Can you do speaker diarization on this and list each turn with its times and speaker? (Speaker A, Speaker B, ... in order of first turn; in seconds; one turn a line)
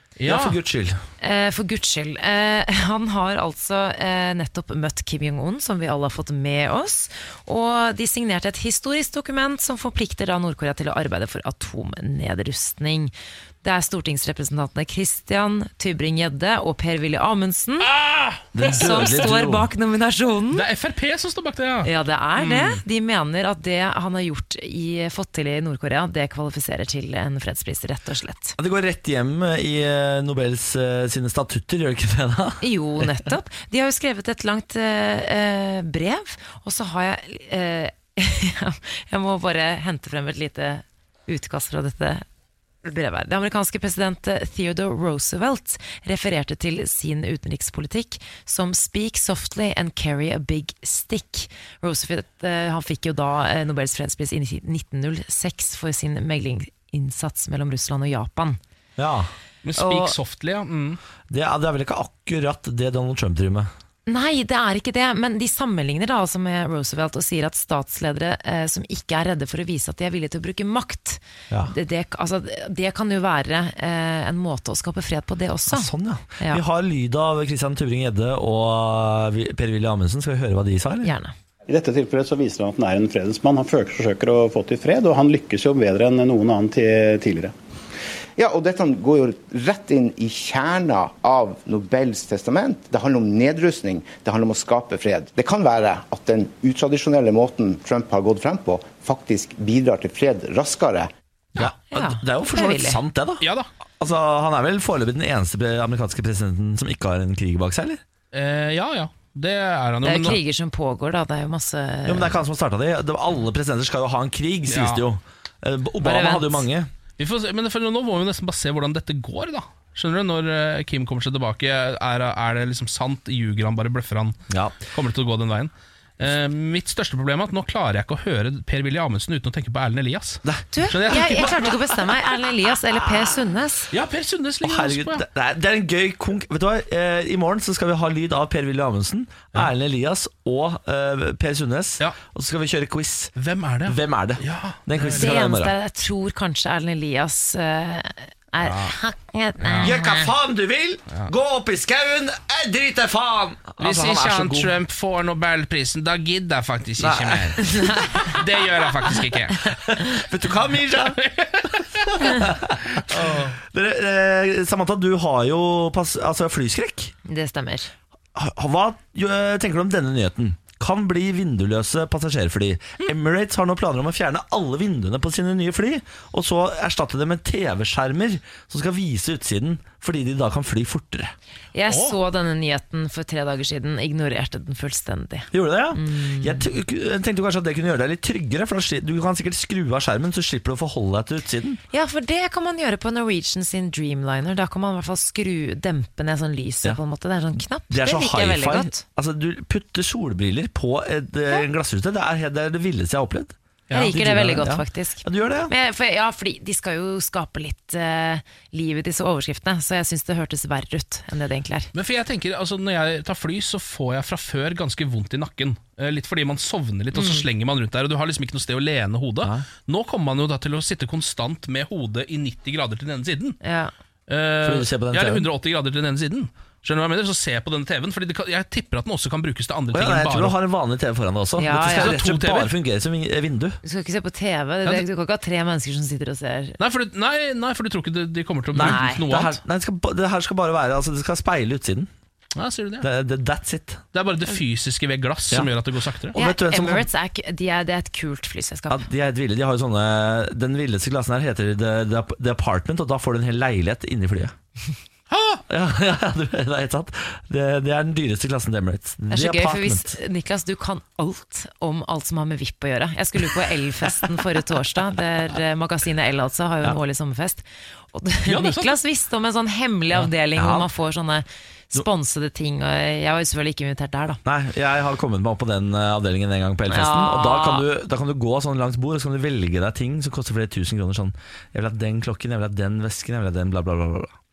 Speaker A: 0.2-0.6
Speaker B: 0.3-1.0
Speaker C: 1.2-17.9
Speaker A: 17.8-19.3
Speaker B: 18.5-19.7
Speaker C: 18.6-20.6
Speaker A: 20.5-22.8
Speaker C: 21.8-28.6
Speaker B: 28.6-32.6
Speaker C: 32.6-42.2
Speaker C: 42.8-58.6
Speaker B: 59.0-59.3
Speaker A: 59.6-61.0
Speaker C: 59.8-60.1
Speaker B: 61.3-63.7
Speaker C: 64.1-76.6
Speaker B: 75.7-81.1
Speaker C: 81.0-81.3
Speaker D: 81.7-87.5
Speaker E: 88.4-101.1
Speaker B: 101.6-103.5
Speaker C: 101.9-103.0
Speaker A: 103.4-103.7
Speaker B: 104.0-108.0
Speaker A: 108.3-110.4
Speaker C: 110.0-112.4
Speaker B: 112.1-116.9
Speaker A: 114.7-115.0
Speaker C: 116.0-116.7
Speaker A: 117.2-124.4
Speaker B: 124.5-124.8
Speaker A: 124.9-131.7
Speaker B: 130.4-132.3
Speaker C: 130.7-133.9
Speaker B: 132.9-133.4
Speaker A: 133.9-135.3
Speaker B: 134.6-143.3
Speaker A: 143.4-145.3
Speaker B: 143.9-145.7
Speaker C: 145.2-150.3
Speaker A: 148.6-148.9
Speaker A: 149.6-149.9
Speaker B: 149.8-154.7
Speaker A: 153.8-159.7
Speaker B: 157.0-158.1
Speaker C: 157.6-158.3
Speaker B: 159.7-161.2
Speaker A: 161.2-162.4
Speaker B: 161.7-167.1
Speaker A: 163.1-163.6
Speaker C: 167.2-167.9
Speaker B: 168.3-181.3
Speaker C: 181.7-186.7
Speaker A: 181.9-182.2
Speaker B: 185.5-191.8
Speaker C: 191.9-199.0
Speaker B: 197.9-205.7
Speaker C: 203.9-211.9
Speaker A: 211.9-223.6
Speaker C: 217.1-217.4
Speaker C: 223.6-223.9
Speaker A: 224.3-230.6
Speaker B: 224.6-225.5
Speaker B: 229.9-233.8
Speaker C: 231.6-232.2
Speaker A: 232.0-232.7
Speaker C: 233.8-236.8
Speaker A: 236.8-239.6
Speaker C: 238.7-239.2
Speaker B: 238.7-242.1
Speaker A: 242.6-243.1
Speaker B: 243.0-244.0
Speaker A: 244.1-246.4
Speaker B: 246.3-247.1
Speaker C: 246.3-249.1
Speaker B: 248.9-254.5
Speaker A: 255.3-255.6
Speaker B: 255.7-260.1
Speaker C: 259.3-274.4
Speaker A: 268.4-268.9
Speaker B: 270.6-270.9
Speaker B: 274.4-284.3
Speaker C: 276.9-277.9